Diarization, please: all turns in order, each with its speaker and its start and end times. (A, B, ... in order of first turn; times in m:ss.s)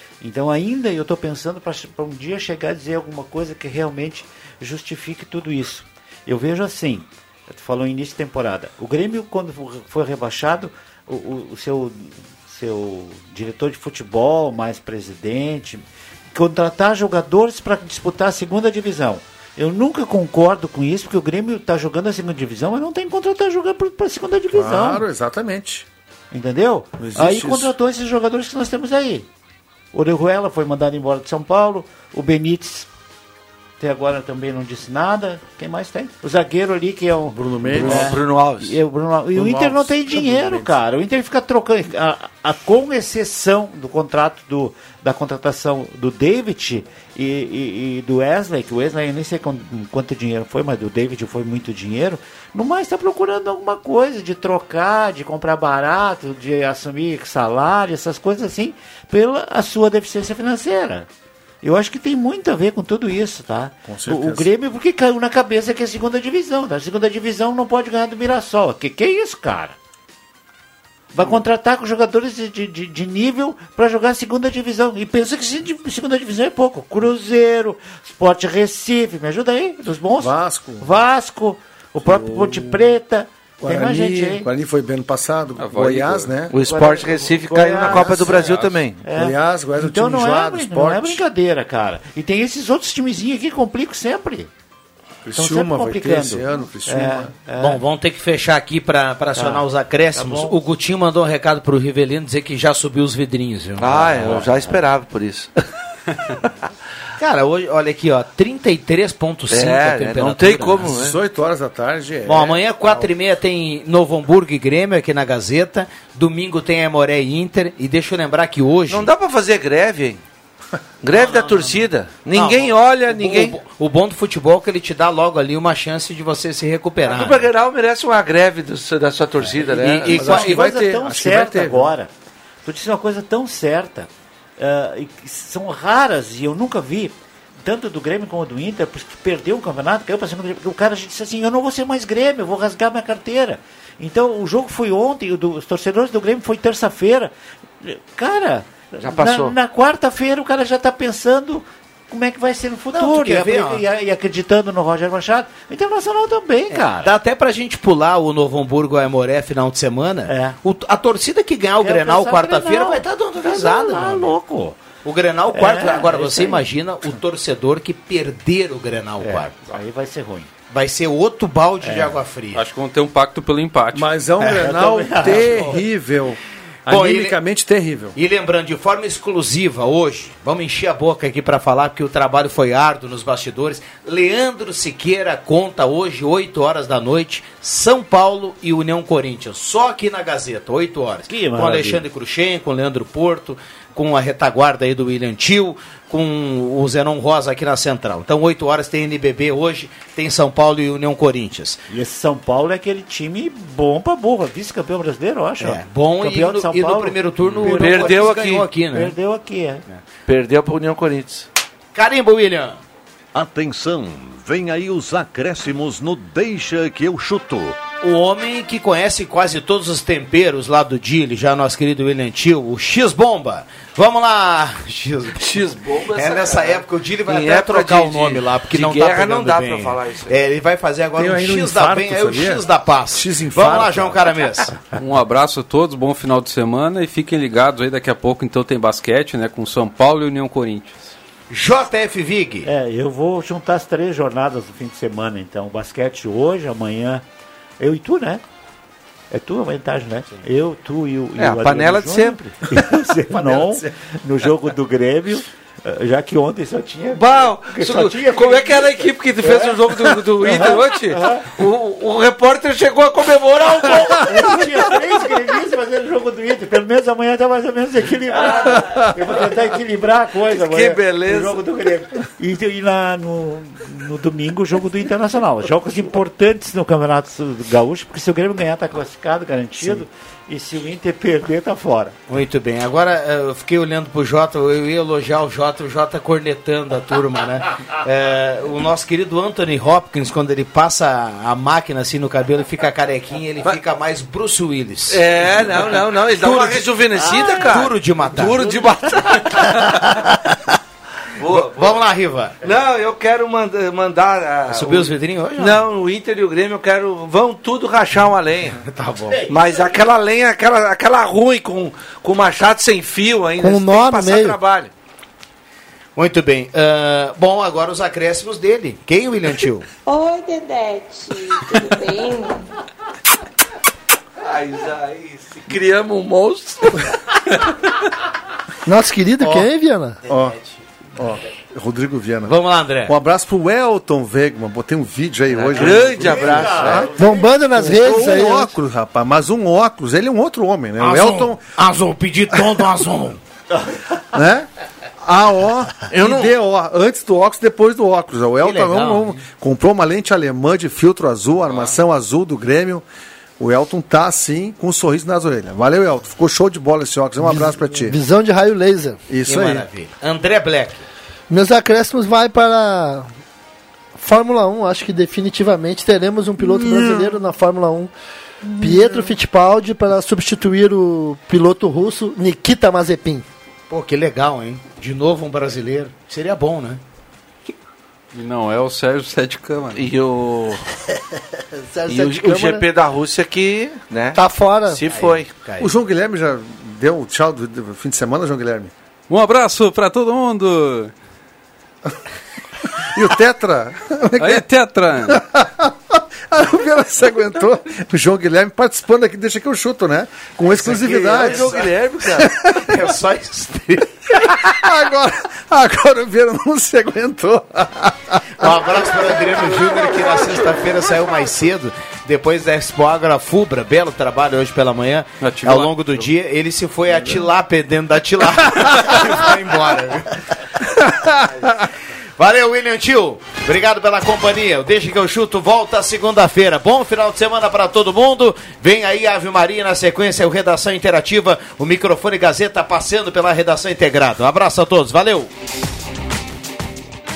0:00.2-0:25.0 A
0:24.5-0:25.9 B
0:26.3-0:29.3 A
0:27.0-0:27.7 B
0:29.9-0:32.9 A
0:33.8-1:01.1 A
0:37.3-0:38.2 B
0:37.8-0:38.8 C
0:39.3-0:40.8 B
1:01.6-1:09.8 A
1:03.8-1:04.5 B
1:11.1-1:24.5 A
1:20.2-1:20.9 B
1:22.0-1:22.9 B
1:23.6-1:26.5 B
1:25.6-1:26.3 D
1:26.5-1:29.0 C
1:26.6-1:34.5 A
1:28.0-1:28.7 D
1:28.2-1:28.4 B
1:29.1-1:31.2 B
1:35.2-1:37.3 B
1:35.3-1:37.8 A
1:37.6-1:44.5 E
1:39.4-1:40.6 A
1:43.8-1:45.5 C
1:47.2-1:50.9 E
1:49.5-1:51.2 C
1:50.9-1:53.1 B
1:52.3-1:59.1 E
1:58.9-2:00.2 C
2:01.0-2:03.6 C
2:01.1-2:07.5 E
2:07.0-2:10.2 C
2:09.4-2:10.6 E
2:10.1-2:11.9 B
2:10.2-2:12.1 A
2:12.6-2:37.1 A
2:29.0-2:29.6 C
2:33.0-2:33.8 E
2:36.7-2:44.4 E
2:40.3-2:40.6 A
2:41.8-2:44.8 A
2:45.0-2:49.5 E
2:45.5-2:46.7 A
2:49.2-2:50.5 A
2:50.7-2:52.6 E
2:51.8-2:52.2 A
2:52.6-2:54.1 D
2:53.9-2:58.2 B
2:54.4-2:55.8 A
2:55.2-2:55.8 E
2:56.9-2:57.4 E
2:58.2-3:21.8 E
3:11.3-3:12.0 A
3:21.9-3:28.4 A
3:25.6-3:29.2 E
3:27.8-3:28.7 C
3:28.9-3:29.8 A
3:30.3-3:31.5 C
3:31.9-3:32.8 E
3:33.3-3:37.8 F
3:38.0-3:45.4 E
3:45.4-3:50.4 C
3:46.1-3:54.8 E
3:51.2-3:54.2 B
3:55.0-4:01.1 D
4:01.5-4:02.7 E
4:02.6-4:07.2 A
4:07.8-4:08.4 A
4:09.3-4:19.8 A
4:11.4-4:12.4 C
4:12.8-4:13.9 B
4:17.1-4:24.5 C
4:20.4-4:21.5 A
4:24.1-4:42.2 A
4:28.5-4:28.8 C
4:30.5-4:31.6 C
4:42.3-4:55.6 E
4:55.1-4:59.9 C
4:56.4-4:58.8 E
4:59.7-5:00.2 E
5:01.4-5:02.0 C
5:01.5-5:02.6 E
5:02.6-5:08.8 C
5:04.7-5:05.8 E
5:08.8-5:09.5 E
5:09.5-5:14.9 C
5:13.6-5:14.6 G
5:16.2-5:19.9 E
5:20.0-5:22.7 H
5:24.4-5:27.1 C
5:28.9-5:30.2 G
5:30.3-5:30.6 B
5:31.2-5:32.6 B
5:32.5-5:33.1 E
5:33.1-5:41.6 B
5:35.5-5:37.0 C
5:36.0-5:37.5 A
5:37.0-5:38.7 G
5:41.0-5:43.4 E
5:44.3-5:44.7 B
5:45.2-5:53.1 B
5:46.1-5:46.5 C
5:48.6-5:49.4 E
5:53.6-5:58.2 B
5:57.4-5:59.2 G
5:59.3-5:59.9 B
5:59.5-6:01.0 E
6:01.5-6:03.3 G
6:04.2-6:08.1 G
6:06.8-6:07.4 B
6:08.8-6:13.4 G
6:13.9-6:17.0 E
6:18.3-6:20.1 D
6:20.0-6:20.8 C
6:21.9-6:22.9 G
6:22.1-6:25.5 C
6:24.4-6:25.0 G
6:25.1-6:25.9 E
6:25.8-6:28.9 B
6:29.3-6:31.1 D
6:33.0-6:34.7 B
6:34.4-6:35.4 D
6:35.3-6:42.9 B
6:40.7-6:41.9 E
6:40.8-6:42.5 C
6:42.7-6:44.1 E
6:44.4-6:48.9 B
6:48.6-7:00.4 E
6:55.4-6:56.3 D
6:58.9-6:59.3 B
7:01.0-7:01.7 B
7:02.4-7:15.5 E